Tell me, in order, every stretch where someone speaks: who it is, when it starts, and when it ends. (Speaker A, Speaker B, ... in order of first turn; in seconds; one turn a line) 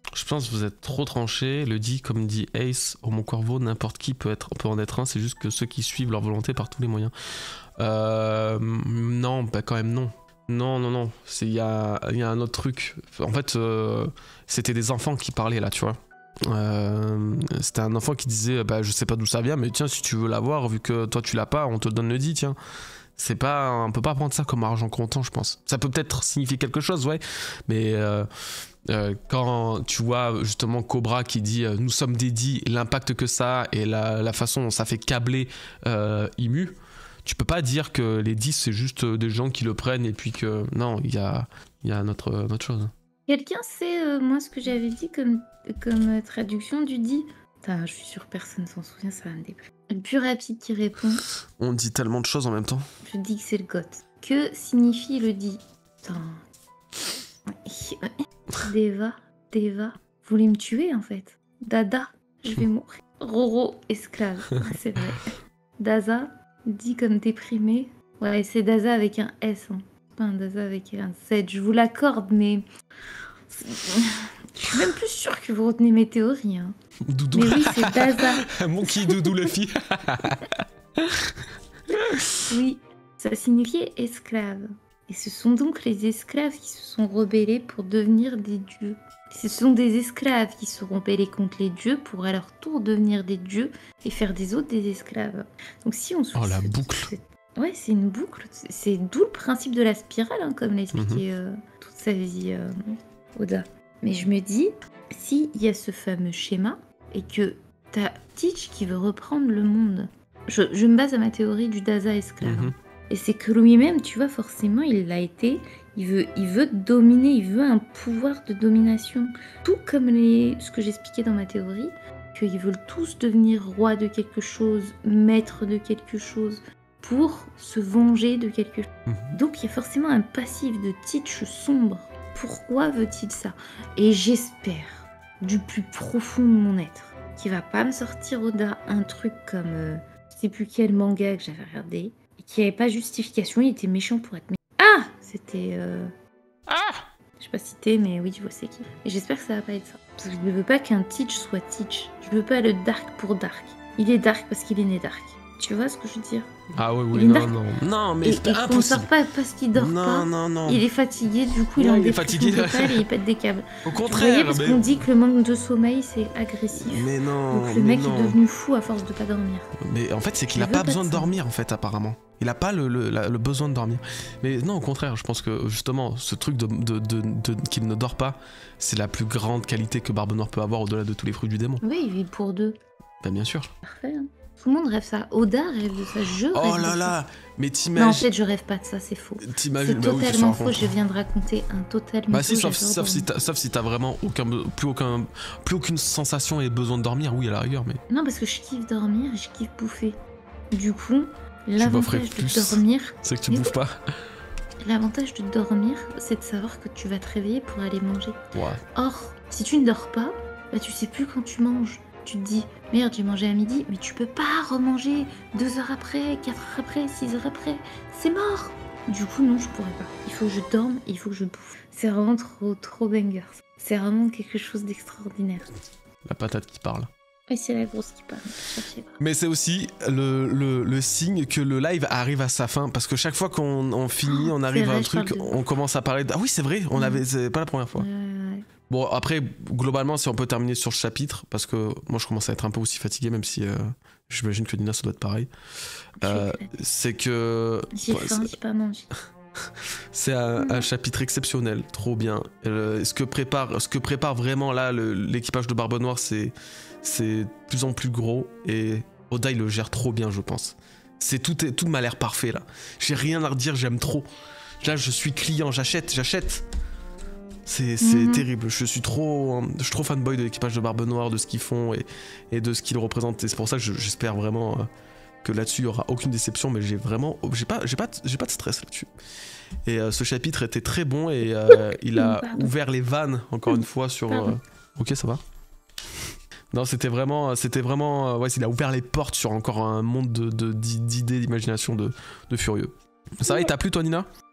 Speaker A: 0.1-7.1
Speaker A: 7.8-22.6
Speaker A: 23.2-28.3
Speaker A: 28.9-42.9
Speaker B: 43.3-51.2
Speaker A: 51.6-52.8
Speaker B: 53.0-56.4
Speaker B: 57.5-72.7
Speaker B: 73.5-76.7
Speaker A: 77.1-81.3
Speaker B: 77.3-79.5
Speaker A: 81.9-82.4
Speaker B: 82.5-102.7
Speaker A: 96.3-97.1
Speaker A: 100.9-101.2
Speaker B: 103.3-146.1
Speaker A: 112.4-112.7
Speaker A: 129.1-129.3
Speaker A: 146.7-147.0
Speaker B: 147.4-156.5
Speaker A: 156.8-159.1
Speaker B: 157.1-157.6
Speaker B: 158.2-169.7
Speaker A: 159.7-160.8
Speaker A: 161.8-163.0
Speaker A: 163.8-164.9
Speaker A: 166.7-168.4
Speaker A: 169.8-181.8
Speaker B: 170.5-171.3
Speaker B: 181.8-182.8
Speaker A: 183.2-183.7
Speaker B: 183.8-187.2
Speaker A: 186.5-188.2
Speaker B: 187.9-193.3
Speaker A: 189.4-190.9
Speaker A: 192.3-198.0
Speaker B: 198.1-200.2
Speaker B: 200.7-203.8
Speaker A: 201.8-203.9
Speaker B: 204.8-208.4
Speaker A: 208.5-208.8
Speaker B: 208.9-225.8
Speaker A: 226.2-227.1
Speaker B: 227.5-229.2
Speaker A: 229.2-238.1
Speaker B: 234.2-235.6
Speaker B: 236.9-237.2
Speaker B: 237.9-238.7
Speaker A: 238.9-245.5
Speaker B: 246.2-246.7
Speaker A: 246.2-248.5
Speaker B: 247.9-249.1
Speaker A: 250.1-264.2
Speaker B: 250.6-250.8
Speaker A: 264.8-266.6
Speaker A: 267.6-274.9
Speaker B: 268.0-268.4
Speaker A: 275.4-279.1
Speaker A: 279.9-285.4
Speaker B: 281.7-282.7
Speaker B: 283.7-284.6
Speaker A: 286.7-294.3